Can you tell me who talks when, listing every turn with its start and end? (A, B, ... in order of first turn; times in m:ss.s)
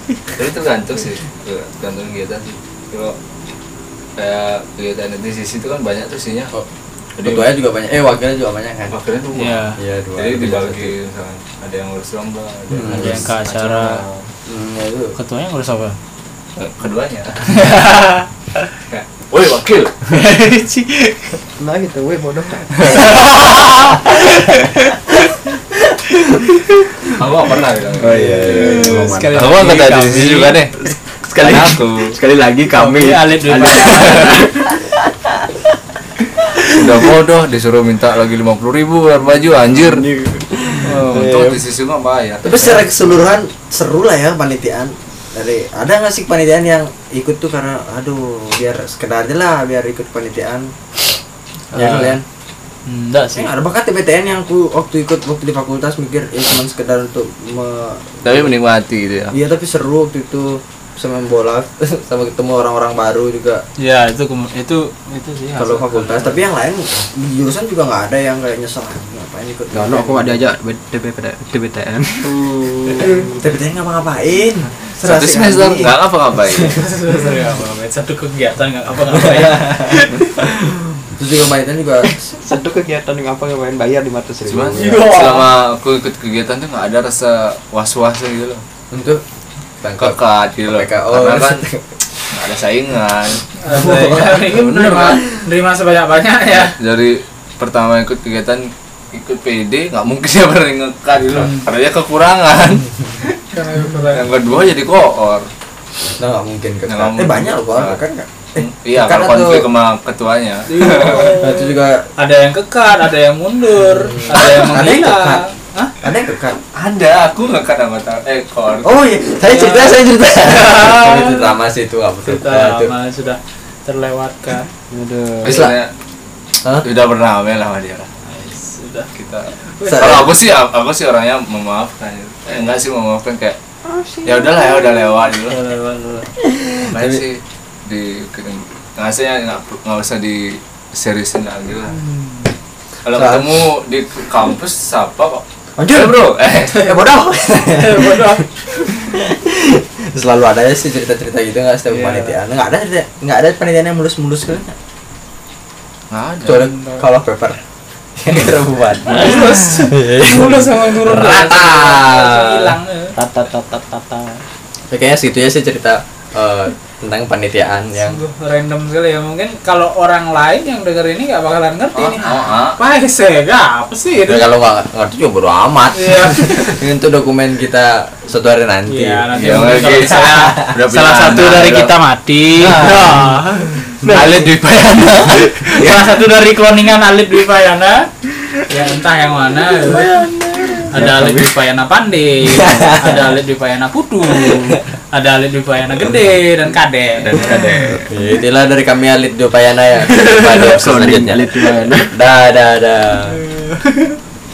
0:00.4-0:03.2 A
0:04.2-0:06.5 A
0:07.2-0:07.5 A
0:07.2-0:08.9 B
0:08.9-0:14.3 A
0:09.4-0:09.8 C
0:09.8-0:11.0 B
0:12.7-0:13.2 B
0:12.9-0:14.0 C
0:14.5-0:15.2 B
0:15.2-0:16.0 C
0:16.6-0:17.8 A
0:17.5-0:18.7 C
0:18.9-0:20.2 A
0:20.1-0:21.4 C
0:21.6-0:23.2 D
0:22.8-0:24.1 A
0:23.0-0:25.0 C
0:26.2-0:26.7 C
0:27.0-0:30.7 A
0:28.0-0:29.6 D
0:28.5-0:30.6 C
0:31.3-0:34.6 D
0:31.3-0:32.2 A
0:32.7-0:34.5 C
0:33.5-0:34.5 A
0:36.6-0:40.1 A
0:39.7-0:41.3 D
0:40.8-0:41.6 C
0:41.0-0:42.9 A
0:42.4-0:50.7 B
0:51.7-0:52.2 B
0:51.8-0:52.2 A
0:52.9-0:53.5 C
0:53.3-0:58.5 B
0:58.2-0:59.4 A
0:59.3-1:03.6 B
1:03.8-1:06.4 C
1:05.6-1:10.4 B
1:09.7-1:13.4 D
1:13.1-1:15.9 B
1:15.0-1:16.8 A
1:16.7-1:20.2 C
1:19.1-1:22.2 B
1:22.0-1:25.1 D
1:24.5-1:28.6 A
1:24.8-1:25.5 C
1:28.9-1:29.2 B
1:29.8-1:31.9 B
1:30.0-1:31.6 A
1:32.3-1:33.5 A
1:33.6-1:36.7 C
1:33.7-1:34.6 B
1:34.4-1:35.2 A
1:36.5-1:43.4 A
1:41.3-1:41.6 C
1:43.5-1:44.3 C
1:44.1-1:45.5 A
1:46.2-1:49.7 B
1:46.9-1:48.0 A
1:48.6-1:51.4 A
1:50.7-1:55.9 C
1:51.4-1:52.1 B
1:53.9-1:55.4 B
1:56.0-1:56.6 B
1:56.7-1:59.0 A
1:58.8-2:02.9 B
1:59.5-2:01.6 C
2:02.2-2:04.7 C
2:04.9-2:05.6 D
2:05.4-2:05.9 A
2:05.4-2:05.8 B
2:06.6-2:06.9 B
2:06.8-2:08.1 A
2:08.2-2:10.3 C
2:09.2-2:13.6 A
2:09.9-2:10.3 B
2:13.9-2:15.3 D
2:14.2-2:15.6 A
2:15.5-2:16.3 C
2:16.4-2:17.2 B
2:16.8-2:22.0 A
2:21.9-2:22.5 C
2:23.0-2:26.9 A
2:23.1-2:23.7 B
2:25.8-2:34.8 B
2:27.7-2:28.5 C
2:32.0-2:32.2 D
2:36.1-2:36.7 A
2:36.4-2:37.6 B
2:36.5-2:37.0 C
2:38.2-2:42.8 B
2:39.0-2:43.2 C
2:43.2-2:44.4 D
2:44.9-2:48.2 B
2:48.0-2:54.5 C
2:52.0-2:52.8 A
2:54.2-3:00.7 B
2:55.9-2:56.8 C
2:58.9-3:03.7 C
2:59.3-3:02.0 A
3:02.6-3:03.3 A
3:04.0-3:04.5 D
3:04.0-3:06.0 A
3:05.7-3:08.1 C
3:08.7-3:10.2 C
3:09.9-3:11.0 B
3:10.0-3:11.5 D
3:10.9-3:17.5 C
3:12.5-3:13.3 B
3:17.2-3:18.0 A
3:17.4-3:18.0 D
3:18.1-3:21.6 B
3:20.2-3:20.7 C
3:20.2-3:22.2 D
3:22.1-3:23.4 B
3:23.3-3:24.2 C